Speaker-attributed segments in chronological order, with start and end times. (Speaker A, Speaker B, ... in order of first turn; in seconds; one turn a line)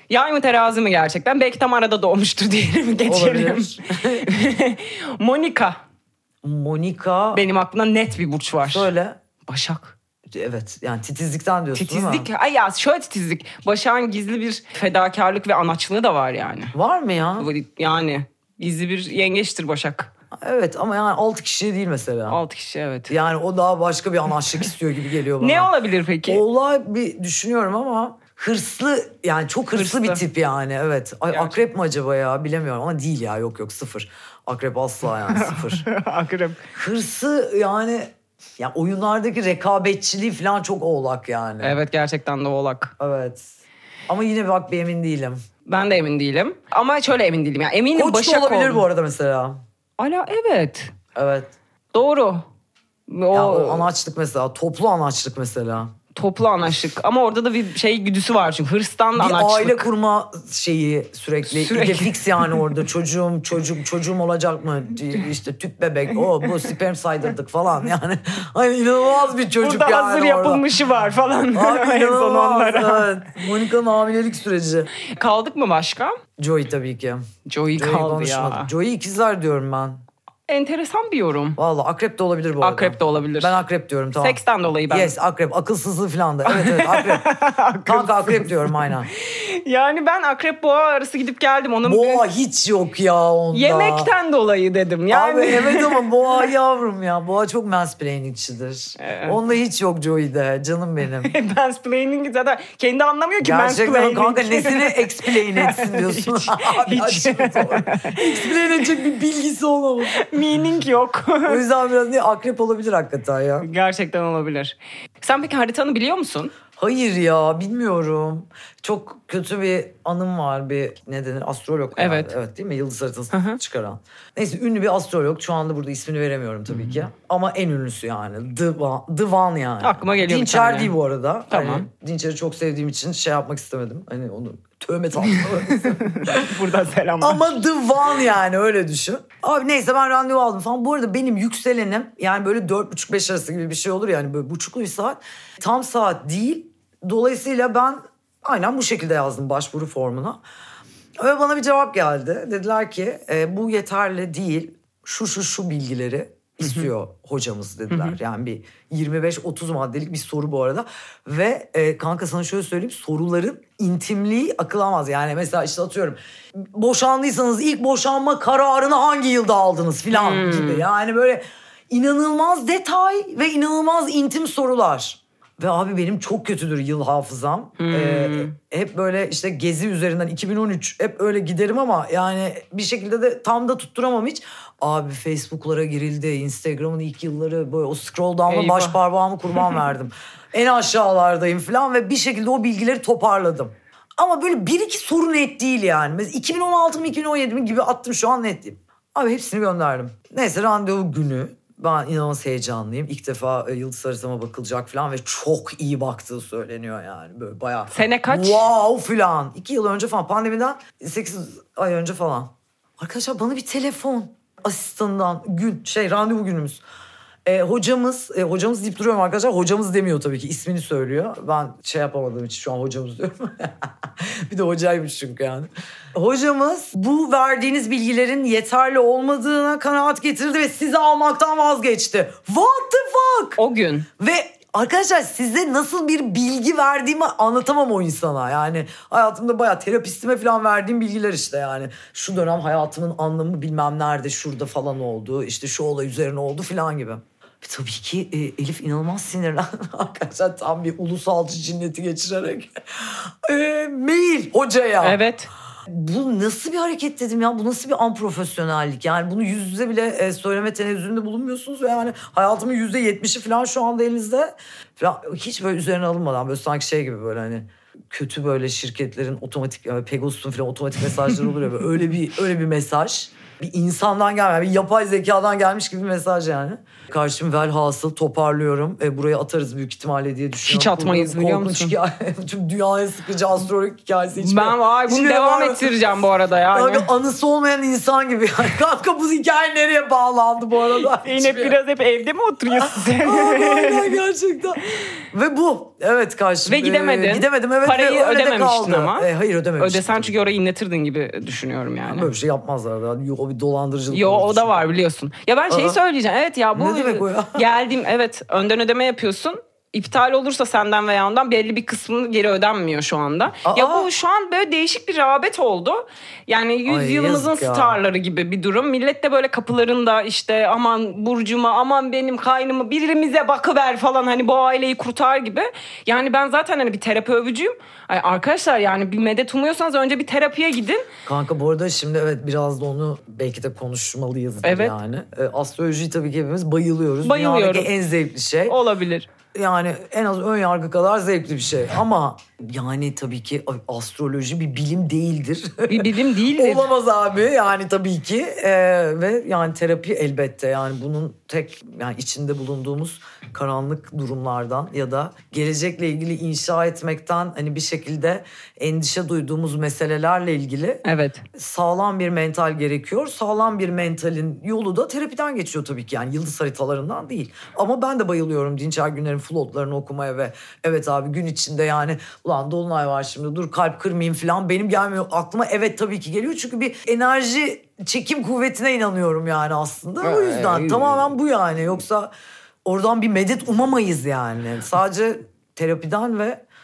Speaker A: 0.1-5.8
Speaker B: 3.1-4.3
Speaker B: 6.4-7.4
Speaker A: 7.3-8.9
Speaker B: 8.6-9.2
Speaker A: 9.5-10.0
Speaker B: 10.3-12.3
Speaker A: 11.8-16.8
Speaker B: 16.7-17.5
Speaker A: 17.4-20.1
Speaker B: 20.4-22.4
Speaker A: 22.3-23.1
Speaker B: 23.1-25.7
Speaker A: 25.4-26.4
Speaker B: 26.3-35.8
Speaker A: 29.7-30.2
Speaker A: 31.3-31.6
Speaker A: 35.3-36.6
Speaker B: 36.8-41.8
Speaker A: 41.6-42.9
Speaker B: 43.0-43.5
Speaker B: 44.1-45.4
Speaker A: 45.7-48.9
Speaker B: 47.9-49.6
Speaker A: 50.0-50.9
Speaker B: 51.1-51.5
Speaker A: 51.9-52.4
Speaker A: 53.1-53.9
Speaker B: 53.3-55.9
Speaker A: 56.1-59.9
Speaker B: 59.2-70.6
Speaker A: 61.5-62.4
Speaker A: 69.6-73.1
Speaker B: 71.5-74.9
Speaker A: 75.0-76.2
Speaker B: 76.4-77.2
Speaker A: 77.5-78.7
Speaker B: 77.8-80.0
Speaker A: 80.5-81.6
Speaker B: 81.6-87.3
Speaker A: 82.6-83.6
Speaker A: 84.2-85.1
Speaker A: 86.5-92.2
Speaker B: 87.9-89.1
Speaker B: 91.8-94.1
Speaker A: 93.5-96.1
Speaker B: 95.1-101.3
Speaker A: 99.0-99.4
Speaker A: 101.2-108.9
Speaker B: 103.4-110.3
Speaker A: 110.1-111.6
Speaker B: 111.5-113.7
Speaker A: 113.6-116.5
Speaker B: 116.8-136.5
Speaker A: 122.0-122.3
Speaker A: 123.3-123.6
Speaker A: 129.8-130.9
Speaker A: 131.5-131.9
Speaker A: 135.3-137.5
Speaker B: 137.2-150.4
Speaker B: 151.2-216.8
Speaker A: 156.6-156.9
Speaker A: 157.9-158.2
Speaker A: 170.1-170.8
Speaker A: 177.8-178.6
Speaker A: 188.5-189.0
Speaker A: 207.9-208.7
Speaker B: 217.4-233.6
Speaker A: 233.6-234.1
Speaker B: 234.2-255.2
Speaker A: 255.0-255.5
Speaker B: 255.9-285.9
Speaker A: 280.6-281.9
Speaker A: 284.4-287.1
Speaker B: 286.7-291.8
Speaker A: 291.2-294.2
Speaker B: 292.7-300.4
Speaker A: 296.7-302.3
Speaker B: 302.1-304.8
Speaker A: 304.1-331.1
Speaker B: 305.7-306.0
Speaker B: 306.7-307.6
Speaker B: 313.6-314.1
Speaker B: 316.9-318.0
Speaker B: 331.3-338.8
Speaker A: 334.6-335.0
Speaker A: 337.2-337.9
Speaker A: 338.7-339.3
Speaker B: 339.5-361.0
Speaker A: 345.9-346.9
Speaker A: 361.0-361.4
Speaker B: 361.6-382.3
Speaker A: 380.2-381.3
Speaker B: 382.9-386.6